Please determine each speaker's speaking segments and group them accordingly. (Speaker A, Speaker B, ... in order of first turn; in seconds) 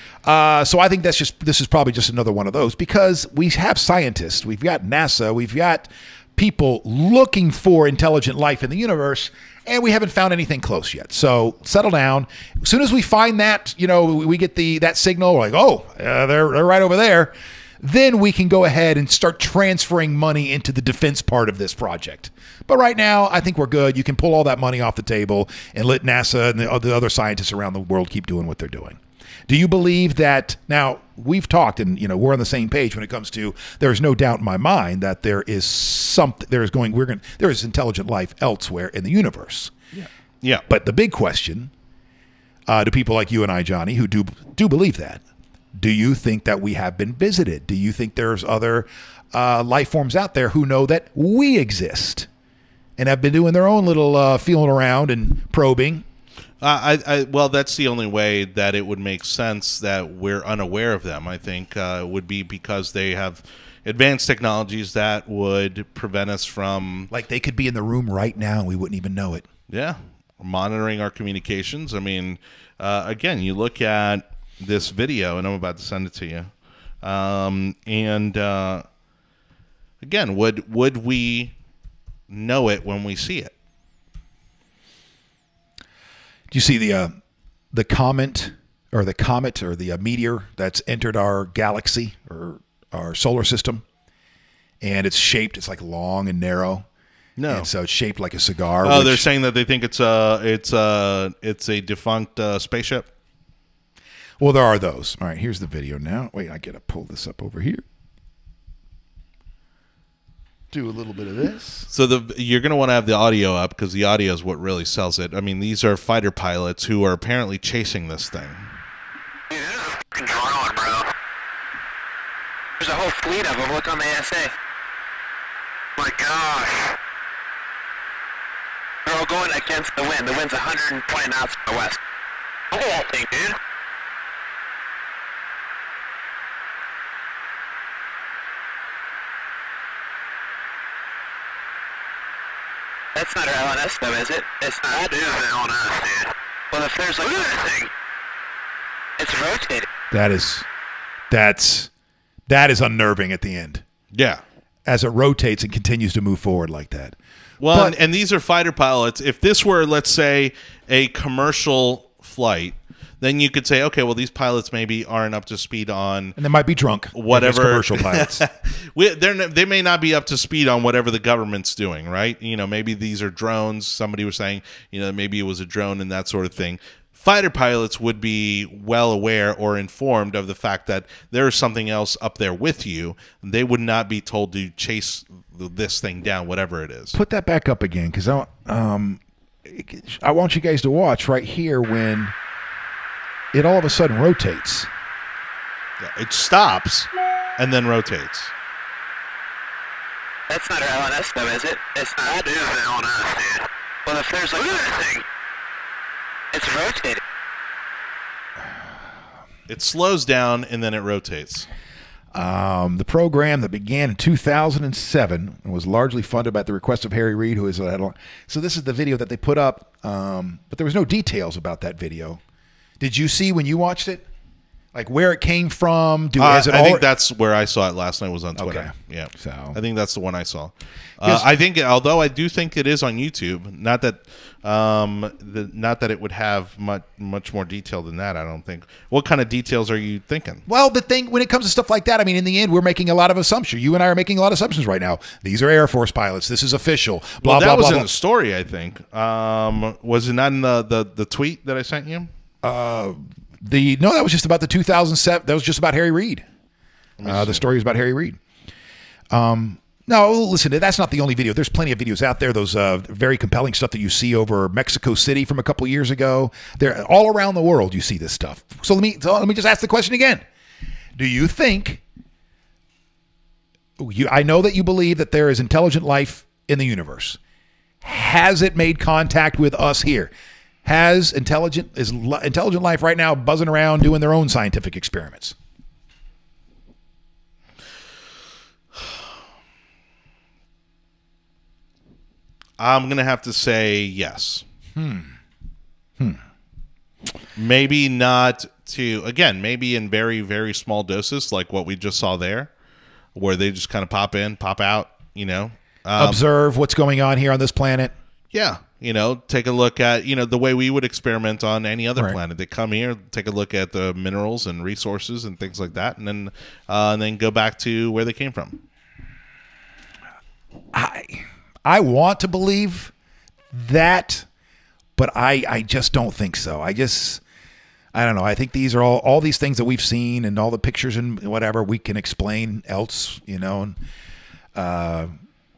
Speaker A: 0.2-39.7, 40.7-41.7, 42.7-45.2, 45.8-52.3, 53.0-56.0, 67.1-69.5, 86.5-87.1, 87.7-93.8, 94.8-96.8, 97.5-99.2, 104.4-107.8, 110.7-111.9, 150.1-150.7, 151.3-151.9, 152.5-153.8, 154.8-157.2, 157.7-157.9, 166.4-168.4, 187.1-192.3, 193.5-194.9, 212.3-222.4, 223.0-224.2, 224.9-227.1, 228.6-229.8, 240.7-248.1, 252.6-256.4, 257.2-258.4, 259.3-270.4, 271.2-272.0, 274.0-277.4, 278.0-280.3, 280.8-285.6, 294.9-295.3, 306.1-308.1, 320.9-323.1, 323.7-324.4, 325.2-327.4, 328.1-334.0, 334.8-335.3
Speaker B: 39.9-40.6, 56.6-67.1, 69.7-76.5, 77.0-78.8, 80.0-81.5, 82.3-83.5, 97.4-97.7, 98.8-103.1, 111.9-118.7, 154.1-154.4, 157.6-166.3, 167.1-187.2, 196.0-198.5, 209.7-211.7, 226.4-240.6, 247.4-252.3, 257.2-257.6, 292.8-294.6, 297.6-302.7, 303.3-306.4, 308.5-318.8
Speaker C: 119.5-121.1, 122.8-124.5, 126.0-127.0, 129.1-132.0, 132.7-133.6, 143.1-147.9, 149.2-149.9, 200.5-205.2, 206.5-207.2